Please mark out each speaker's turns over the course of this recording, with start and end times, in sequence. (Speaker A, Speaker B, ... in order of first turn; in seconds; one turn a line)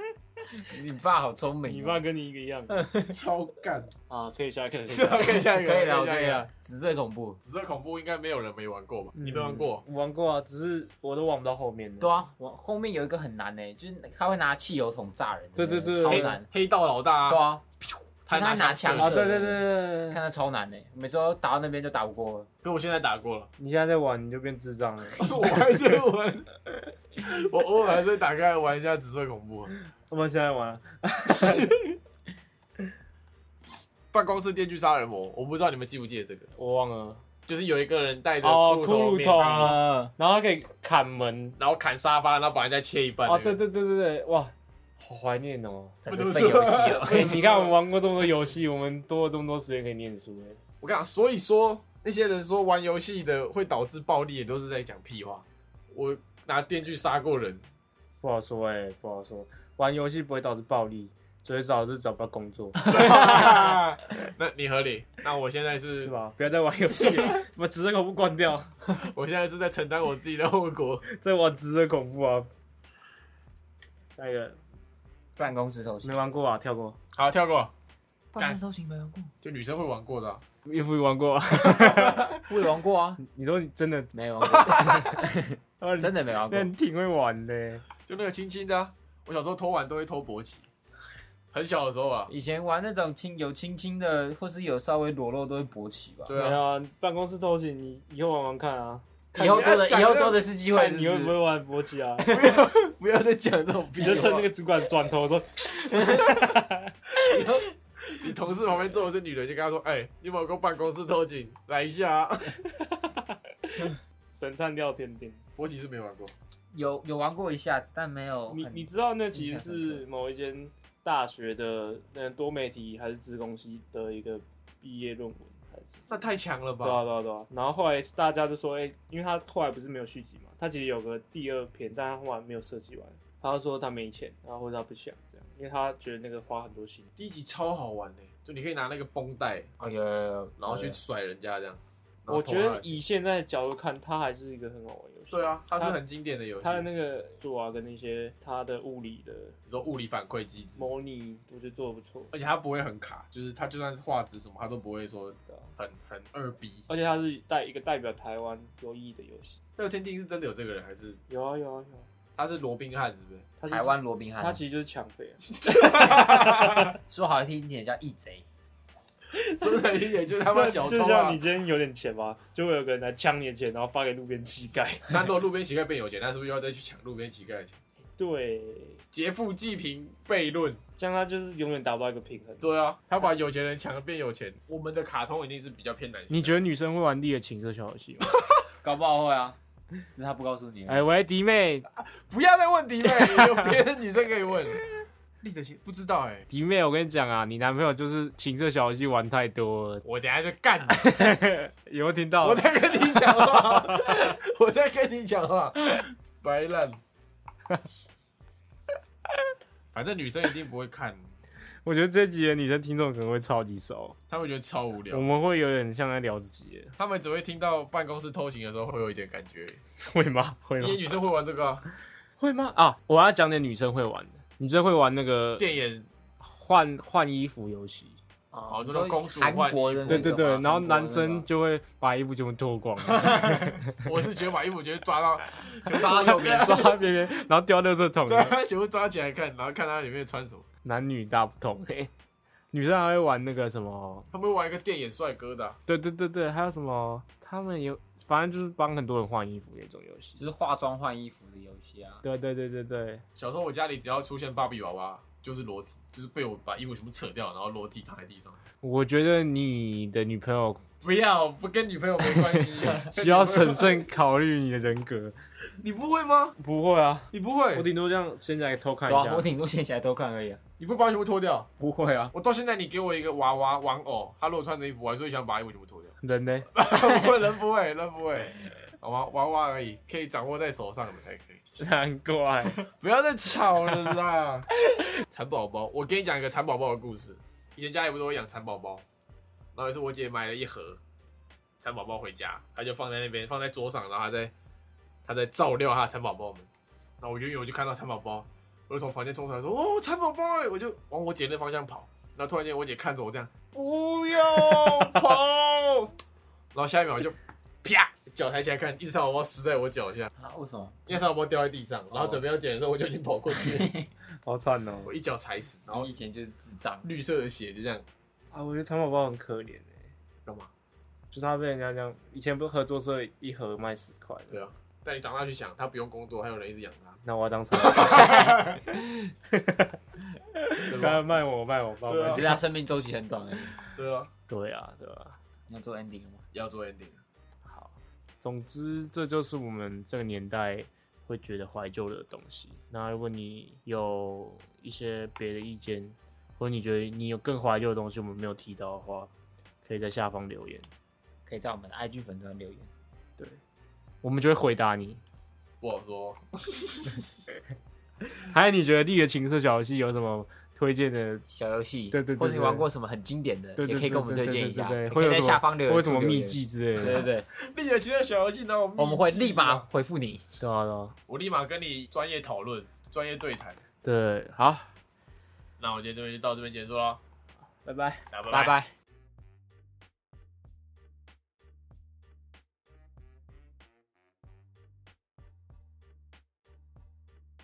Speaker A: 0.6-2.0
Speaker B: 1.7-2.8
Speaker A: 2.7-3.2
Speaker C: 3.1-3.9
Speaker B: 4.1-5.4
Speaker C: 4.9-6.5
Speaker A: 5.5-7.4
Speaker C: 7.4-9.8
Speaker B: 9.2-12.1
Speaker A: 12.0-16.5
Speaker B: 15.6-16.4
Speaker C: 16.1-19.3
Speaker A: 17.3-17.6
Speaker A: 18.3-22.5
Speaker B: 18.9-20.2
Speaker C: 22.6-23.5
Speaker B: 23.6-26.0
Speaker C: 25.2-26.5
Speaker C: 27.2-29.7
Speaker B: 30.1-31.8
Speaker C: 34.1-36.5
Speaker B: 36.6-37.2
Speaker C: 37.5-39.8
Speaker B: 38.4-41.6
Speaker A: 39.4-40.1
Speaker C: 41.6-43.6
Speaker B: 43.3-50.6
Speaker A: 46.0-47.5
Speaker C: 46.1-47.7
Speaker C: 50.8-57.6
Speaker B: 58.2-63.8
Speaker C: 62.8-66.1
Speaker B: 66.0-68.8
Speaker C: 67.1-67.4
Speaker C: 68.9-71.0
Speaker B: 71.0-72.5
Speaker B: 74.2-74.6
Speaker A: 75.4-76.3
Speaker B: 76.0-77.0
Speaker C: 77.2-77.7
Speaker A: 78.3-79.3
Speaker C: 79.4-80.4
Speaker B: 80.7-82.5
Speaker A: 82.4-83.2
Speaker B: 83.2-84.1
Speaker A: 84.1-86.7
Speaker C: 84.4-85.2
Speaker B: 84.8-85.2
Speaker B: 85.8-87.9
Speaker C: 88.1-90.7
Speaker C: 91.5-92.3
Speaker A: 92.3-96.3
Speaker C: 96.3-96.6
Speaker B: 96.4-99.2
Speaker A: 99.3-101.3
Speaker C: 99.4-100.4
Speaker B: 100.7-102.3
Speaker C: 102.3-104.5
Speaker A: 102.3-102.5
Speaker B: 104.0-106.9
Speaker A: 105.9-106.4
Speaker C: 107.2-112.6
Speaker B: 112.6-115.4
Speaker C: 115.6-116.3
Speaker A: 116.7-120.0
Speaker B: 118.5-126.3
Speaker C: 126.1-127.0
Speaker B: 126.8-137.1
Speaker C: 137.2-139.7
Speaker A: 139.8-141.0
Speaker C: 140.6-143.0
Speaker B: 142.3-146.0
Speaker C: 145.3-146.9
Speaker B: 146.6-149.6
Speaker C: 149.7-150.9
Speaker B: 150.8-152.3
Speaker C: 152.3-156.9
Speaker B: 156.9-159.6
Speaker C: 159.8-161.2
Speaker B: 161.3-162.1
Speaker C: 162.4-163.5
Speaker B: 163.6-166.9
Speaker A: 163.7-164.6
Speaker C: 165.6-166.9
Speaker A: 165.7-168.4
Speaker B: 169.3-169.9
Speaker C: 169.6-171.4
Speaker B: 170.5-175.3
Speaker C: 175.1-177.8
Speaker B: 178.2-179.0
Speaker C: 179.1-180.8
Speaker B: 181.0-182.7
Speaker C: 182.6-186.6
Speaker B: 186.3-188.4
Speaker A: 188.8-189.6
Speaker A: 190.1-191.1
Speaker B: 190.9-191.9
Speaker C: 191.9-194.9
Speaker B: 193.1-193.7
Speaker C: 195.4-196.5
Speaker B: 196.5-200.0
Speaker C: 200.1-201.2
Speaker B: 200.9-204.3
Speaker C: 202.4-207.0
Speaker C: 209.9-211.3
Speaker B: 211.8-214.2
Speaker C: 214.3-215.3
Speaker B: 215.1-216.9
Speaker C: 217.0-219.8
Speaker B: 219.9-221.2
Speaker C: 220.8-221.8
Speaker B: 222.4-225.7
Speaker C: 225.6-226.1
Speaker B: 226.4-228.2
Speaker A: 228.5-231.5
Speaker C: 228.7-230.4
Speaker B: 230.1-234.0
Speaker C: 233.1-237.0
Speaker A: 235.9-236.9
Speaker B: 235.9-238.6
Speaker C: 238.3-240.7
Speaker B: 240.8-242.1
Speaker B: 242.7-244.3
Speaker C: 244.3-245.8
Speaker B: 245.9-250.4
Speaker A: 250.4-252.2
Speaker B: 252.2-253.2
Speaker C: 253.4-258.6
Speaker B: 258.8-260.8
Speaker C: 261.0-264.1
Speaker B: 262.2-265.3
Speaker C: 265.8-266.6
Speaker B: 266.6-269.5
Speaker C: 267.3-267.9
Speaker A: 269.1-270.6
Speaker C: 270.8-271.7
Speaker A: 271.8-272.3
Speaker C: 272.3-276.2
Speaker B: 276.2-276.7
Speaker C: 276.7-281.6
Speaker A: 276.9-277.3
Speaker B: 281.8-282.8
Speaker C: 282.8-284.7
Speaker C: 285.3-289.0
Speaker C: 289.8-291.0
Speaker C: 291.8-294.5
Speaker C: 295.2-296.7
Speaker C: 297.2-303.5
Speaker B: 303.7-306.1
Speaker C: 304.7-305.1
Speaker C: 306.7-310.3
Speaker A: 310.4-311.1
Speaker C: 311.1-313.9
Speaker A: 313.5-314.1
Speaker B: 314.4-315.1
Speaker C: 315.1-316.1
Speaker A: 315.9-317.1
Speaker C: 317.0-318.1
Speaker B: 318.5-319.9
Speaker B: 321.3-324.6
Speaker C: 324.5-327.2
Speaker B: 327.2-328.7
Speaker C: 327.9-328.4
Speaker B: 329.5-330.0
Speaker B: 330.6-332.6
Speaker C: 330.8-331.4
Speaker C: 332.1-332.5
Speaker A: 332.3-333.8
Speaker C: 333.9-334.3
Speaker B: 334.5-335.4
Speaker A: 335.7-336.4
Speaker C: 336.5-337.2
Speaker B: 337.7-349.3
Speaker B: 349.9-350.9
Speaker A: 351.5-352.9
Speaker B: 354.2-355.2
Speaker C: 355.8-357.2
Speaker B: 358.3-361.4
Speaker A: 361.5-367.5
Speaker B: 362.1-362.9
Speaker B: 363.8-367.3
Speaker C: 367.5-369.9
Speaker A: 369.0-370.5
Speaker B: 370.6-371.1
Speaker C: 371.3-373.8
Speaker B: 374.0-374.9
Speaker C: 375.8-377.2
Speaker B: 377.9-378.3
Speaker C: 378.3-378.8
Speaker A: 378.5-378.9